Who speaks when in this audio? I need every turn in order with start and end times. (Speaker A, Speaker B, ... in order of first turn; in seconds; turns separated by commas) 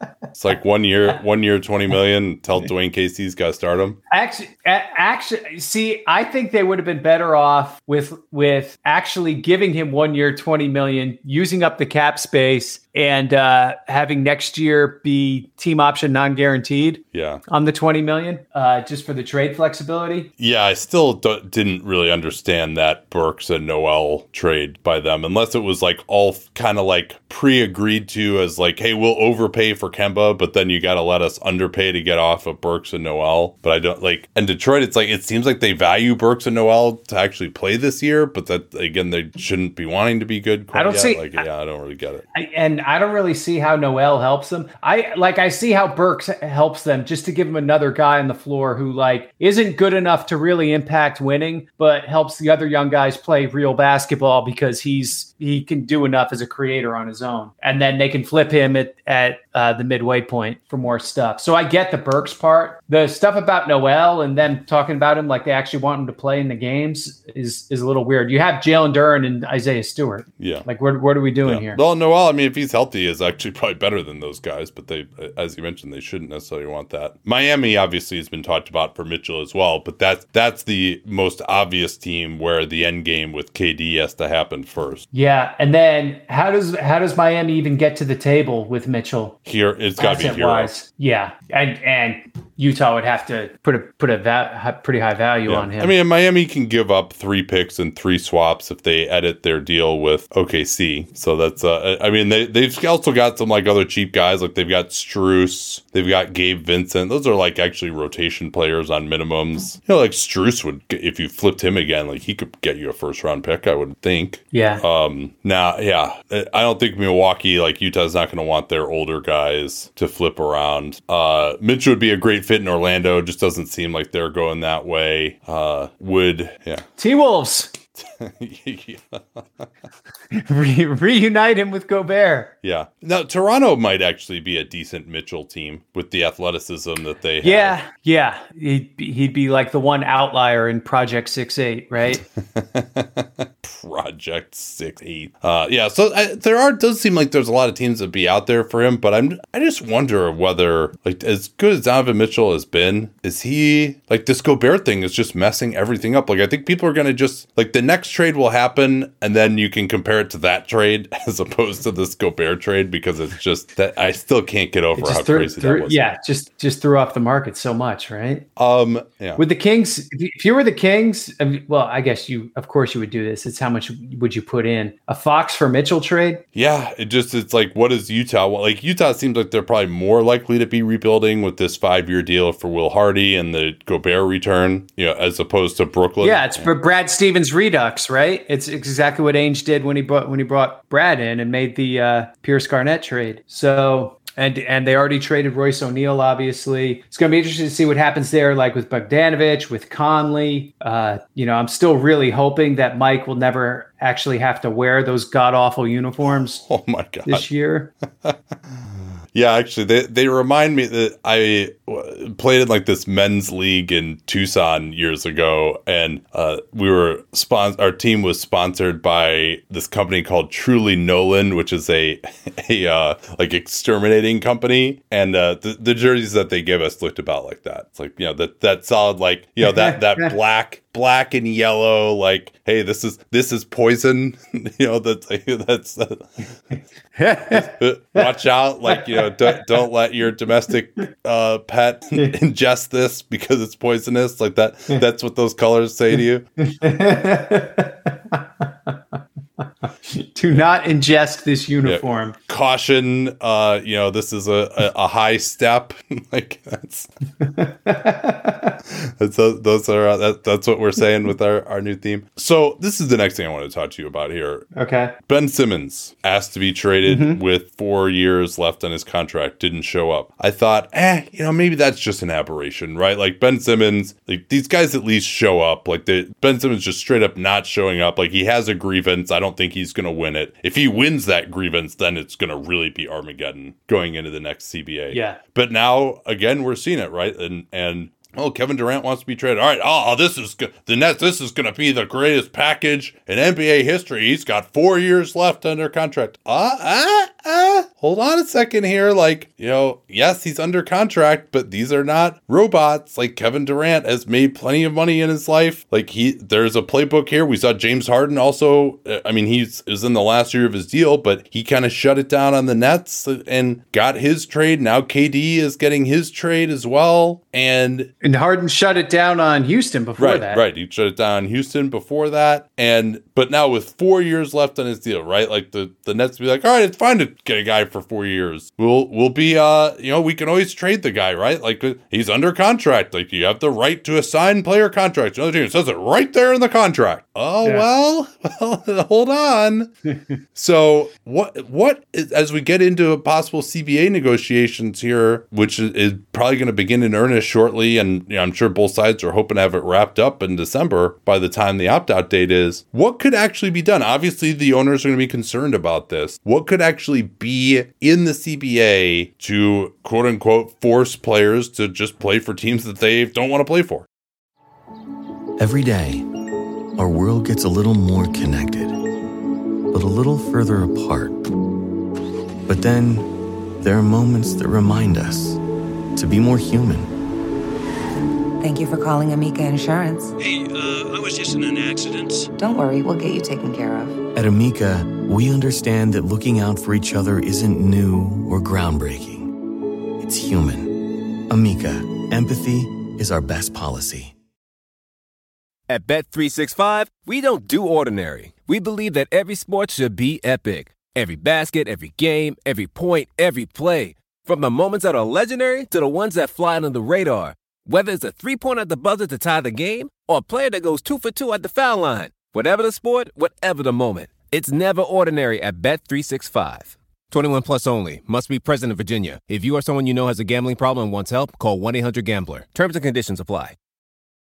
Speaker A: 0.3-4.0, Speaker B: 4.1-20.3, Speaker A: 17.1-17.4, Speaker A: 20.4-42.2, Speaker B: 40.7-41.5, Speaker B: 42.3-71.8, Speaker A: 70.4-70.7, Speaker A: 71.4-85.0, Speaker B: 85.1-89.4, Speaker A: 89.5-90.7, Speaker B: 90.0-95.9, Speaker A: 95.5-126.8, Speaker B: 114.5-114.8, Speaker B: 127.0-127.7, Speaker A: 128.0-129.7, Speaker B: 130.3-132.5, Speaker A: 132.6-137.8, Speaker B: 137.4-142.2, Speaker A: 142.4-166.0, Speaker B: 165.0-168.4, Speaker A: 168.6-169.4, Speaker B: 169.4-176.4, Speaker A: 176.6-186.7, Speaker B: 186.2-206.6, Speaker A: 206.6-207.5, Speaker B: 207.3-207.9, Speaker A: 208.2-236.5, Speaker B: 229.6-230.3, Speaker B: 237.2-238.2, Speaker A: 237.5-246.5, Speaker B: 238.9-239.6, Speaker B: 246.6-248.9, Speaker B: 250.1-252.4, Speaker A: 251.8-257.1, Speaker B: 257.4-258.8, Speaker A: 259.0-264.7, Speaker B: 264.8-265.1, Speaker A: 265.3-318.1, Speaker B: 267.1-267.4, Speaker B: 285.1-285.4, Speaker B: 318.2-320.6, Speaker A: 320.2-339.9, Speaker A: 340.6-364.1, Speaker C: 365.6-366.3, Speaker C: 367.0-369.0, Speaker C: 369.9-371.4, Speaker C: 372.7-375.6, Speaker C: 376.2-377.1, Speaker D: 378.6-380.3, Speaker E: 380.4-382.5, Speaker D: 382.6-384.2, Speaker C: 384.4-389.5, Speaker C: 390.2-391.0, Speaker C: 391.5-394.3, Speaker F: 395.9-423.8